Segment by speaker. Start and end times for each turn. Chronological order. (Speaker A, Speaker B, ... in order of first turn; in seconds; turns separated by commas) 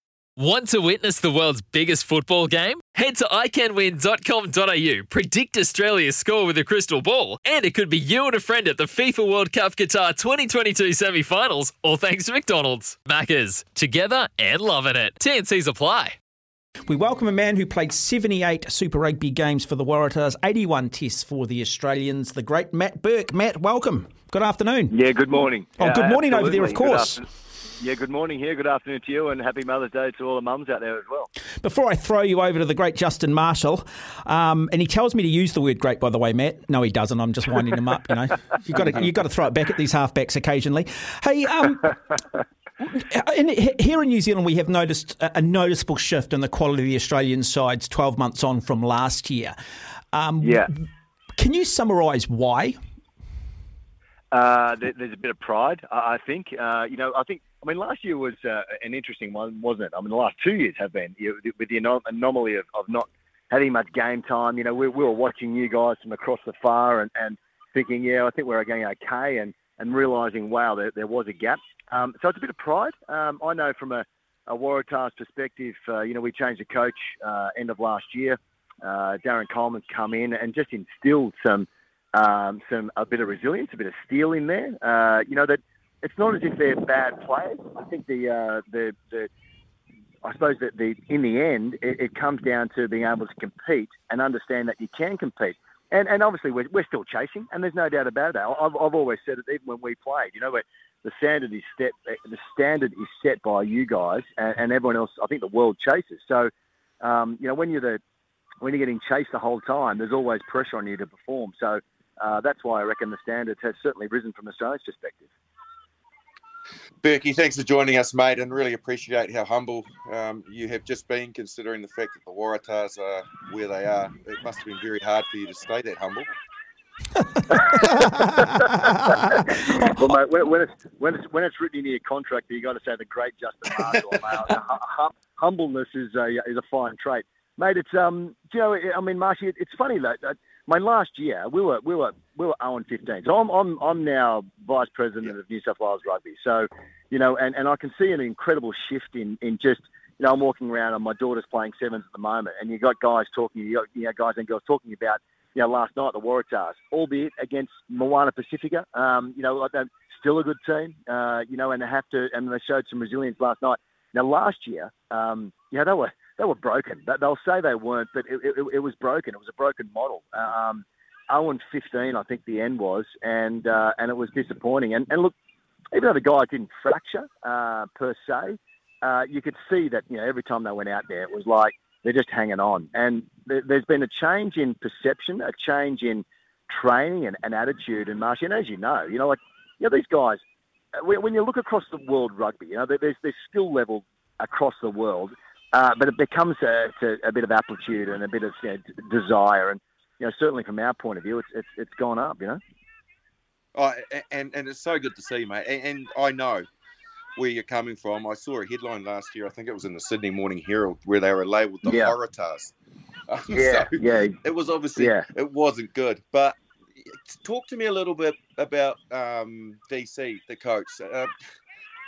Speaker A: 0.4-16.2, Speaker B: 16.9-24.9, Speaker C: 24.9-27.3, Speaker B: 25.8-27.1, Speaker C: 27.8-31.3, Speaker B: 31.6-42.0, Speaker B: 42.8-49.5, Speaker B: 50.1-50.7, Speaker C: 50.4-50.7, Speaker B: 51.4-52.8, Speaker C: 54.3-89.3, Speaker C: 90.2-108.0, Speaker C: 108.6-115.3, Speaker D: 117.0-126.3, Speaker B: 127.7-129.6, Speaker C: 129.3-175.3, Speaker C: 175.9-190.4, Speaker C: 191.0-202.6, Speaker D: 203.8-206.7, Speaker D: 207.4-212.7, Speaker C: 211.8-212.1, Speaker D: 213.3-221.3, Speaker C: 213.5-214.4, Speaker C: 215.0-215.3